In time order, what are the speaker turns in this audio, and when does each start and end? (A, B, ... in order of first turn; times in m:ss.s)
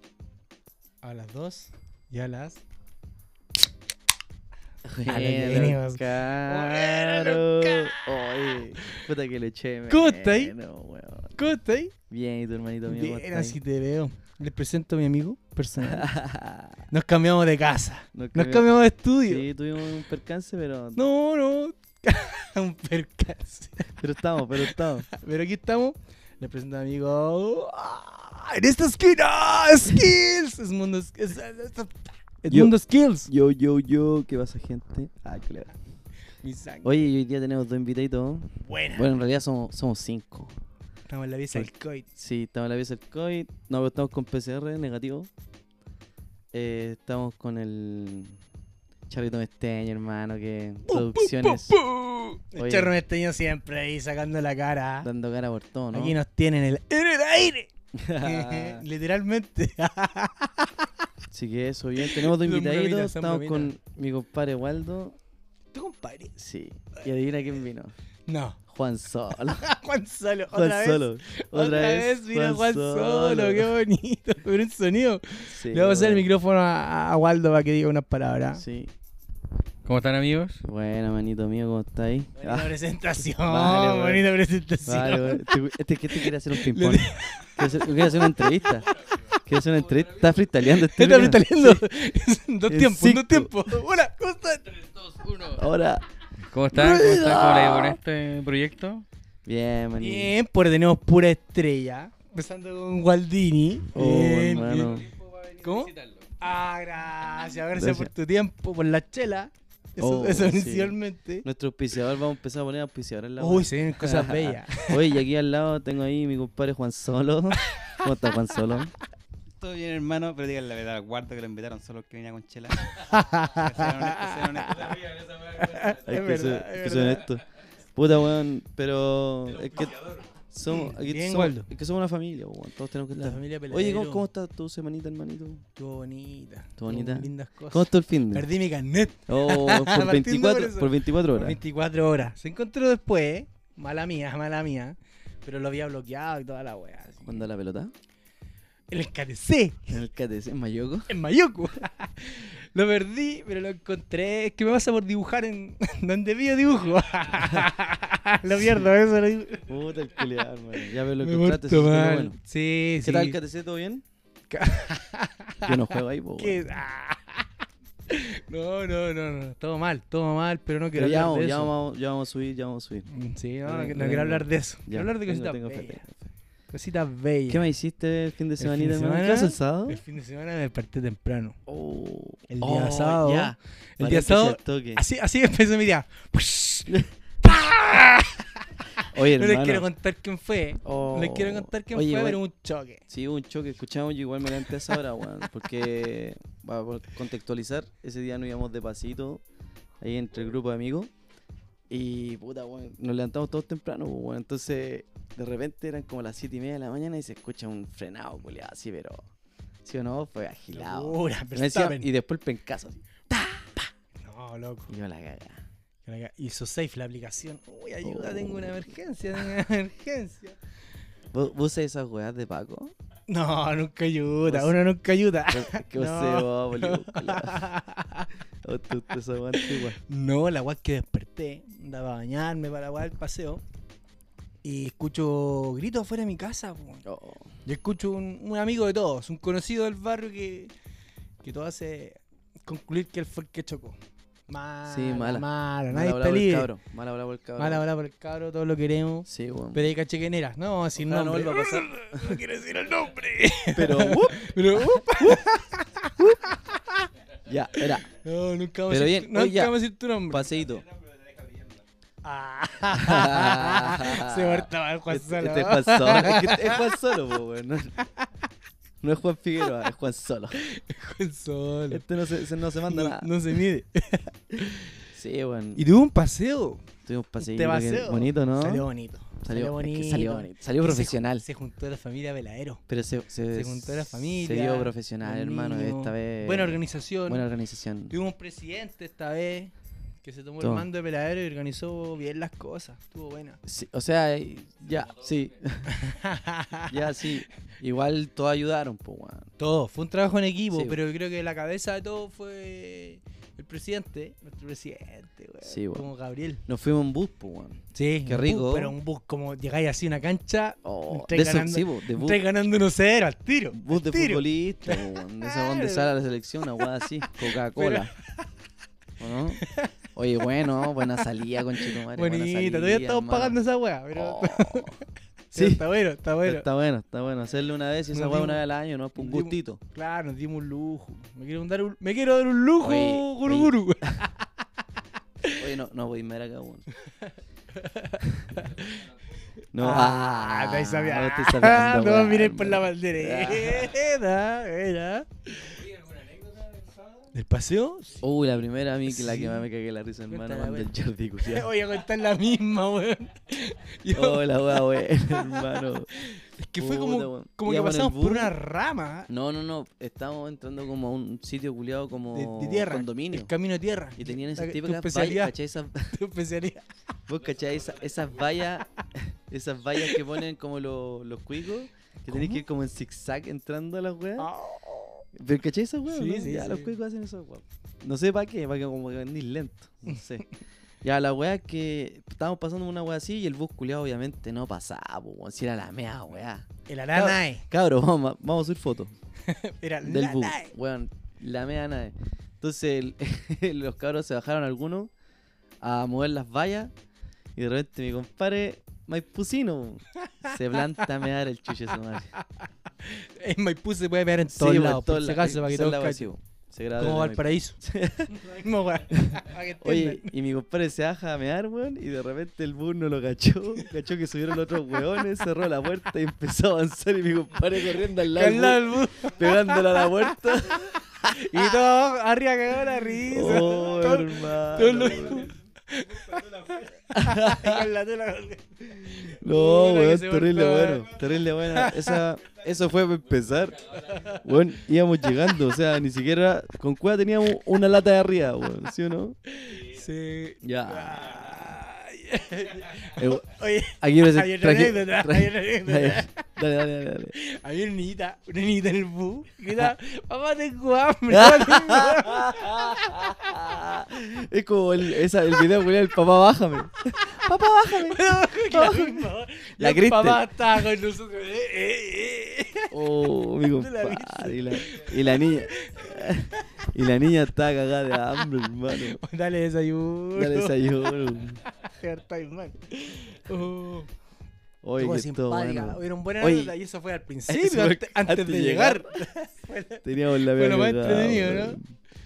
0:01.0-0:02.6 A
0:04.8-0:11.4 B
0:05.0-0:09.1 A
0:09.9-0:10.6 A
0:11.4-0:11.9 A
0:12.1-0:13.6 B
0:12.9-0:16.1 A
0:15.8-0:16.8 B
0:16.9-0:19.5 A
0:18.1-0:18.7 B
0:19.2-0:21.0 B
0:21.0-0:23.9 A
0:24.0-0:25.1 B
0:24.6-0:33.3 A
0:32.5-0:32.8 B
0:33.3-0:35.7 B
0:36.4-0:36.9 A
0:36.8-0:40.6 B
0:38.6-0:39.1 A
0:41.1-0:42.1 A
0:41.5-0:45.3 B
0:46.5-0:48.4 B
0:49.1-0:51.8 B
0:50.9-0:55.1 A
0:52.6-0:52.9 B
0:55.0-0:56.2 B
0:55.9-1:00.9 A
0:57.9-0:58.8 B
1:01.3-1:05.2 B
1:02.0-1:03.7 A
1:05.7-1:06.4 A
1:06.4-1:07.9 B
1:08.3-1:08.6 A
1:08.7-1:09.6 B
1:09.4-1:18.6 A
1:10.5-1:13.8 B
1:15.5-1:16.3 B
1:18.5-1:18.9 B
1:19.8-1:20.6 C
1:20.6-1:22.7 B
1:22.4-1:25.6 A
1:23.4-1:24.2 B
1:24.9-1:28.9 B
1:26.2-1:28.9 A
1:28.9-1:30.4 C
1:29.5-1:31.8 B
1:30.8-1:34.7 A
1:32.7-1:33.6 B
1:34.7-1:35.7 C
1:35.6-1:36.0 B
1:36.5-1:39.0 C
1:36.7-1:38.0 B
1:39.5-1:40.3 B
1:40.0-1:45.0 A
1:43.9-1:45.1 B
1:44.8-1:46.3 C
1:45.6-1:51.5 A
1:47.7-1:48.1 B
1:50.0-1:58.9 B
1:53.4-1:55.0 A
1:57.7-1:58.0 A
1:59.6-2:05.3 D
2:03.0-2:07.3 A
2:05.4-2:05.9 C
2:06.0-2:07.4 B
2:08.0-2:15.6 B
2:09.7-2:10.2 C
2:10.7-2:11.7 A
2:13.2-2:14.2 A
2:15.8-2:27.4 A
2:16.8-2:18.5 B
2:19.3-2:21.6 B
2:27.2-2:27.9 B
2:28.9-2:29.9 A
2:29.9-2:31.1 B
2:31.1-2:39.7 A
2:39.7-2:42.4 B
2:41.2-2:43.4 A
2:43.0-2:44.0 B
2:44.5-2:47.5 A
2:45.6-2:46.7 B
2:48.1-2:51.7 A
2:51.0-2:53.1 B
2:53.1-2:56.0 A
2:53.6-2:56.3 B
2:56.7-2:57.7 A
2:57.5-3:00.0 B
2:58.6-3:01.6 A
3:01.7-3:05.0 B
3:02.5-3:13.0 A
3:09.1-3:09.9 B
3:10.8-3:12.4 B
3:13.1-3:19.4 B
3:20.0-3:21.1 B
3:21.9-3:29.2 B
3:29.8-3:33.9 B
3:30.7-3:32.1 A
3:34.2-3:34.9 A
3:34.9-3:35.6 B
3:36.0-3:40.6 A
3:38.0-3:39.5 B
3:41.3-3:42.9 B
3:43.3-3:48.3 A
3:44.5-3:44.8 B
3:45.5-3:47.7 B
3:48.6-3:50.0 B
3:49.6-3:53.6 A
3:54.6-3:57.0 A
3:57.0-3:57.5 B
3:57.7-4:00.7 A
4:01.4-4:04.0 A
4:04.5-4:06.7 A
4:04.9-4:07.9 B
4:07.6-4:17.1 A
4:09.3-4:09.9 B
4:11.0-4:12.4 B
4:13.7-4:15.4 B
4:16.2-4:16.6 B
4:17.5-4:18.1 B
4:17.8-4:20.5 A
4:18.9-4:20.9 B
4:21.1-4:21.8 D
4:22.2-4:26.9 A
4:22.9-4:28.0 B
4:28.0-4:28.3 A
4:29.0-4:30.6 B
4:30.6-4:32.0 A
4:31.9-4:33.6 B
4:32.8-4:34.4 A
4:35.1-4:35.9 B
4:35.8-4:36.8 A
4:37.0-4:38.9 B
4:37.4-4:42.8 A
4:39.4-4:41.5 B
4:42.9-4:48.2 B
4:43.5-4:47.4 A
4:48.1-4:49.7 A
4:50.2-4:53.6 A
4:50.6-4:50.9 B
4:53.6-4:55.9 B
4:54.8-4:55.6 C
4:55.9-4:57.2 A
4:56.9-4:59.5 B
4:59.6-5:06.6 A
5:00.7-5:01.0 B
5:05.6-5:06.1 B
5:06.7-5:09.0 B
5:07.9-5:16.1 A
5:10.8-5:12.4 B
5:13.7-5:18.1 B
5:17.2-5:18.2 A
5:19.2-5:19.6 B
5:19.6-5:19.9 A
5:20.2-5:23.6 B
5:21.8-5:26.6 A
5:24.1-5:25.0 B
5:25.6-5:25.8 B
5:26.4-5:29.8 B
5:28.1-5:28.6 A
5:29.2-5:34.5 A
5:32.8-5:33.7 B
5:35.4-5:35.7 A
5:35.5-5:36.9 B
5:37.1-5:39.0 A
5:38.2-5:38.6 B
5:38.6-5:39.6 C
5:39.7-5:44.0 B
5:39.8-5:45.8 A
5:45.6-5:47.2 C
5:47.3-5:48.3 A
5:48.2-5:51.7 B
5:49.1-5:49.7 A
5:50.3-5:50.9 A
5:51.4-5:55.8 A
5:54.1-5:58.6 B
5:56.5-5:59.3 A
5:59.3-6:03.5 B
6:02.3-6:05.5 A
6:04.2-6:06.1 B
6:06.1-6:06.9 A
6:07.3-6:14.5 B
6:12.3-6:12.6 A
6:14.4-6:15.2 A
6:15.3-6:20.5 B
6:16.1-6:16.9 A
6:21.0-6:29.1 B
6:26.9-6:27.7 A
6:29.5-6:30.7 A
6:30.0-6:35.1 B
6:35.8-6:36.9 B
6:37.6-6:42.3 B
6:42.4-6:46.3 A
6:44.5-6:48.4 B
6:47.0-6:50.3 A
6:49.1-7:01.8 B
6:58.0-7:12.2 A
7:03.3-7:05.5 B
7:06.3-7:06.8 D
7:07.1-7:07.9 B
7:08.9-7:19.4 B
7:13.7-7:14.4 C
7:14.0-7:14.4 A
7:15.2-7:15.5 A
7:19.5-7:26.4 A
7:20.6-7:21.8 B
7:23.0-7:27.4 B
7:27.4-7:33.5 A
7:31.3-7:40.4 B
7:37.9-7:42.9 A
7:42.9-7:49.2 B
7:43.8-7:46.9 A
7:48.3-7:51.1 A
7:50.4-7:51.6 B
7:51.7-7:54.1 A
7:54.8-7:56.7 B
7:55.0-8:01.8 A
7:57.5-7:59.0 B
8:00.0-8:01.9 B